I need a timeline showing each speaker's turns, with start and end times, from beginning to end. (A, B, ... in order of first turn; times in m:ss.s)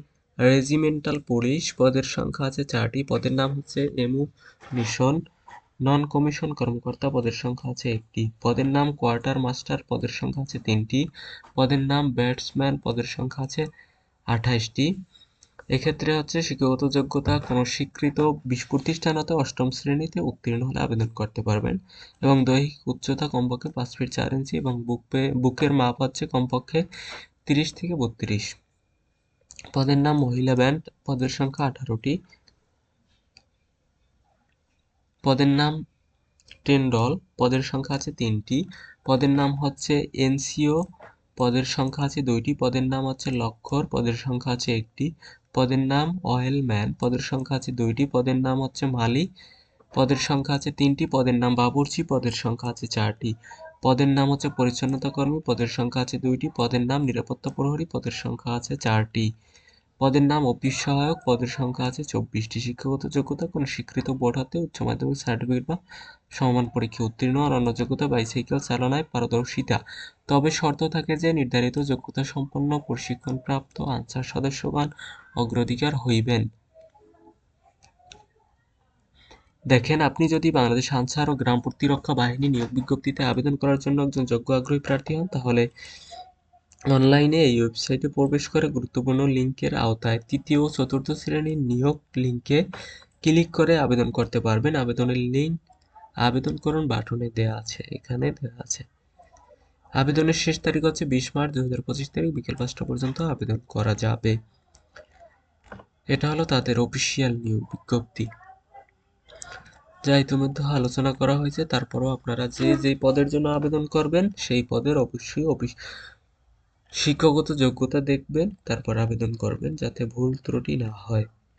0:00.4-0:05.2 A
0:05.8-0:11.0 A
0:11.6-0:13.6 A
0:14.3-0:14.9 A
0:15.7-0:26.8 A
0:27.4-0:28.5 A
0:29.7-0:32.2 A
0:35.2-0:35.8 A
0:36.6-0:40.8 A
0:41.4-0:49.3 A
0:49.9-0:59.3 A
1:00.0-1:05.8 A
1:06.3-1:16.5 A
1:19.7-1:25.7 A
1:26.9-1:32.6 A
1:33.2-1:35.6 A
1:36.2-1:38.8 A
1:40.0-1:44.4 A
1:46.1-1:48.3 A
1:50.0-1:55.7 A
1:57.0-2:01.3 A